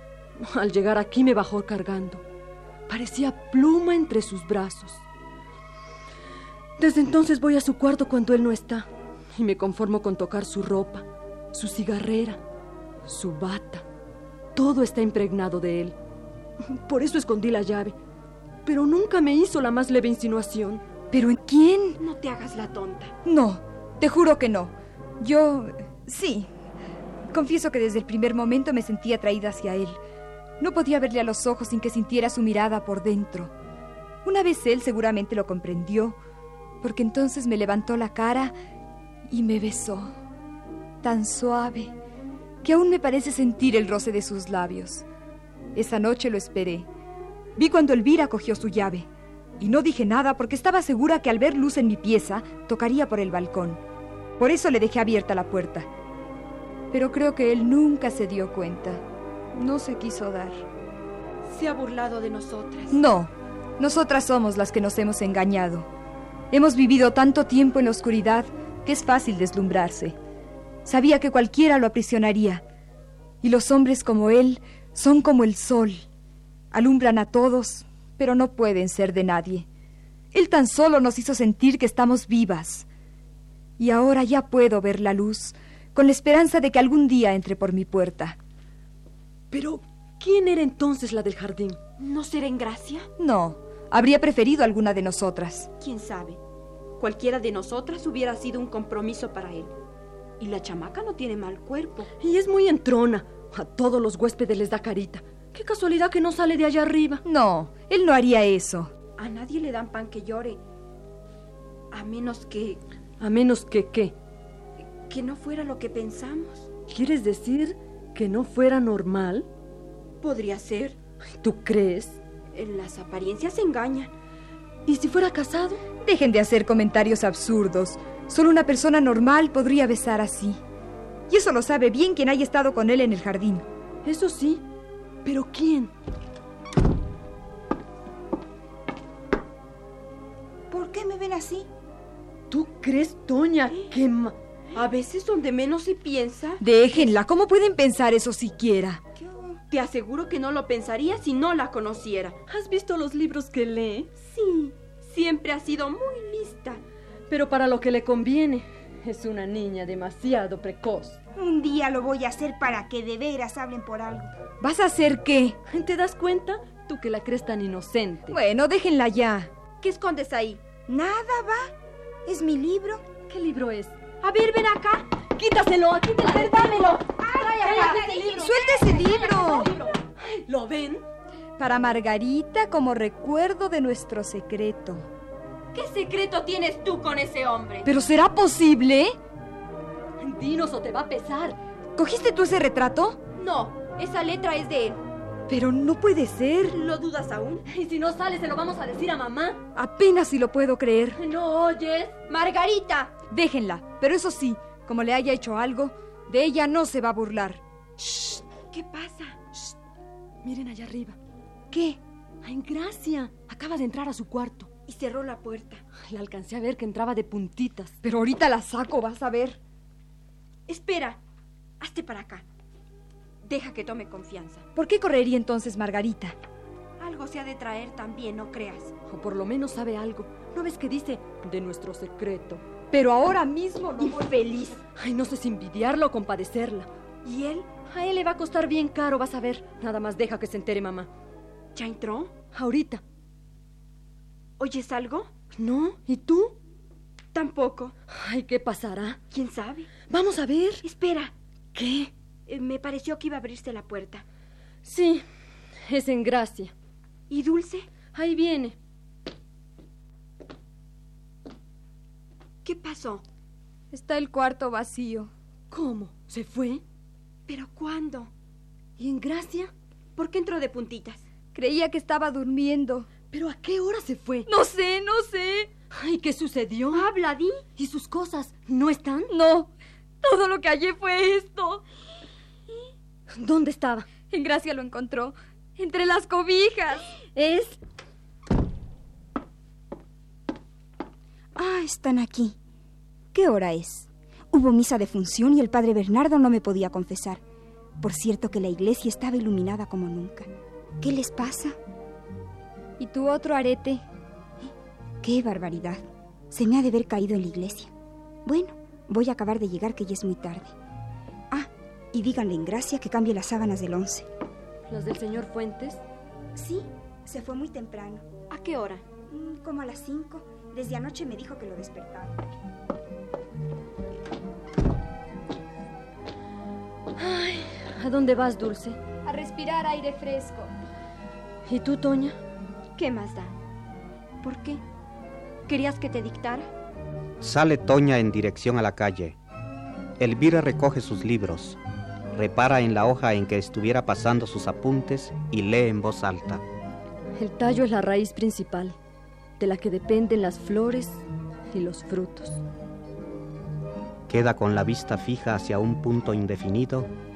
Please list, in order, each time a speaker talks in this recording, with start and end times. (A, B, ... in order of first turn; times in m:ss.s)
0:00.4-0:02.2 A
0:02.9-0:05.0 A
0:06.8-0:12.4 A
0:13.0-0:13.9 A
0:14.6-0:16.0 A
0:16.6-0:18.0 A
0:18.6-0:20.8 A
0:21.1-0:22.0 B
0:22.0-0:23.2 C
0:23.2-0:26.5 B
0:27.3-0:30.0 B
0:30.6-0:33.5 B
0:34.2-0:36.2 B
0:36.8-0:38.5 B
0:39.3-0:40.1 B
0:41.0-0:41.9 B
0:42.6-0:45.0 B
0:45.7-0:46.9 B
0:47.6-0:49.1 B
0:49.6-0:53.8 B
0:54.4-0:55.9 B
0:56.9-0:59.0 B
0:59.5-1:00.7 B
1:01.4-1:03.0 C
1:02.9-1:05.9 B
1:06.5-1:10.2 B
1:10.8-1:12.6 B
1:13.4-1:16.1 B
1:16.7-1:19.7 B
1:20.3-1:22.9 B
1:23.8-1:28.4 B
1:29.5-1:31.8 A
1:32.0-1:33.1 C
1:33.2-1:35.7 B
1:35.8-1:36.4 C
1:37.0-1:39.7 C
1:40.4-1:42.1 C
1:42.2-1:47.2 A
1:47.2-1:48.9 B
1:49.2-1:50.6 C
1:51.9-1:52.8 C
1:53.2-1:54.2 A
1:55.1-1:56.7 C
1:56.9-1:59.5 A
2:00.2-2:01.0 C
2:01.4-2:02.2 A
2:02.5-2:04.1 C
2:04.9-2:05.8 A
2:06.0-2:10.6 B
2:11.3-2:13.6 B
2:14.0-2:14.6 A
2:15.2-2:15.9 A
2:20.7-2:21.7 D
2:22.5-2:24.4 A
2:24.7-2:26.6 C
2:26.6-2:29.0 B
2:29.2-2:29.6 D
2:29.7-2:32.4 C
2:32.5-2:34.1 A
2:34.2-2:36.8 C
2:37.3-2:41.2 A
2:41.4-2:44.3 D
2:44.6-2:45.6 B
2:45.7-2:48.4 A
2:48.3-2:49.5 B
2:49.8-2:50.6 C
2:50.8-2:51.7 D
2:52.3-2:53.0 D
2:53.3-2:54.0 A
2:54.2-2:55.1 C
2:55.4-3:01.0 A
2:56.2-2:58.5 C
2:57.1-2:59.2 D
2:58.4-2:59.7 B
3:01.6-3:05.1 B
3:05.7-3:07.9 C
3:07.8-3:09.2 B
3:10.2-3:11.6 A
3:12.0-3:13.2 B
3:13.4-3:15.0 C
3:15.5-3:16.8 B
3:16.7-3:17.6 C
3:17.7-3:19.6 A
3:19.8-3:21.2 B
3:21.2-3:22.2 A
3:22.3-3:23.2 C
3:23.3-3:27.6 B
3:28.0-3:29.7 C
3:30.4-3:31.2 A
3:31.7-3:32.0 B
3:32.4-3:34.7 A
3:34.9-3:35.8 C
3:36.0-3:38.0 A
3:38.0-3:39.6 B
3:40.7-3:41.2 C
3:41.8-3:42.4 C
3:43.4-3:44.6 C
3:44.8-3:46.4 B
3:47.0-3:48.9 C
3:49.1-3:52.6 A
3:52.9-3:54.4 B
3:54.0-3:54.8 C
3:54.9-3:56.9 A
3:57.2-3:57.7 C
3:57.9-4:01.1 A
4:01.8-4:02.3 C
4:02.5-4:03.0 A
4:04.6-4:05.3 C
4:05.6-4:06.6 A
4:07.3-4:07.9 C
4:08.1-4:09.2 A
4:09.3-4:09.9 C
4:10.1-4:10.8 A
4:10.8-4:11.3 C
4:11.8-4:12.1 A
4:12.5-4:14.2 C
4:14.8-4:15.2 A
4:15.8-4:16.7 A
4:17.3-4:17.9 C
4:18.1-4:18.8 A
4:22.6-4:23.2 C
4:23.9-4:25.3 B
4:25.7-4:26.8 A
4:27.5-4:28.3 C
4:29.0-4:29.7 A
4:30.2-4:31.2 C
4:31.5-4:33.1 B
4:33.3-4:34.5 A
4:34.5-4:35.7 B
4:35.9-4:37.1 A
4:36.9-4:37.6 C
4:37.8-4:39.3 A
4:39.3-4:41.8 B
4:43.3-4:44.1 A
4:44.3-4:47.6 B
4:51.6-4:52.6 D
4:53.3-4:57.4 D
4:58.0-5:00.5 D
5:01.0-5:01.8 D
5:03.0-5:04.0 B
5:05.2-5:07.9 D
5:08.4-5:10.7 D
5:11.5-5:14.3 D
5:14.9-5:16.0 A
5:16.6-5:18.3 D
5:18.5-5:19.0 C
5:19.3-5:22.4 D
5:27.2-5:29.0 A
5:29.2-5:30.7 B
5:31.7-5:32.4 A
5:33.0-5:33.5 C
5:34.4-5:34.8 C
5:35.7-5:36.7 C
5:37.4-5:39.4 E
5:40.2-5:41.8 E
5:42.3-5:46.6 E
5:47.4-5:49.0 A
5:49.6-5:52.6 A
5:54.3-5:57.1 E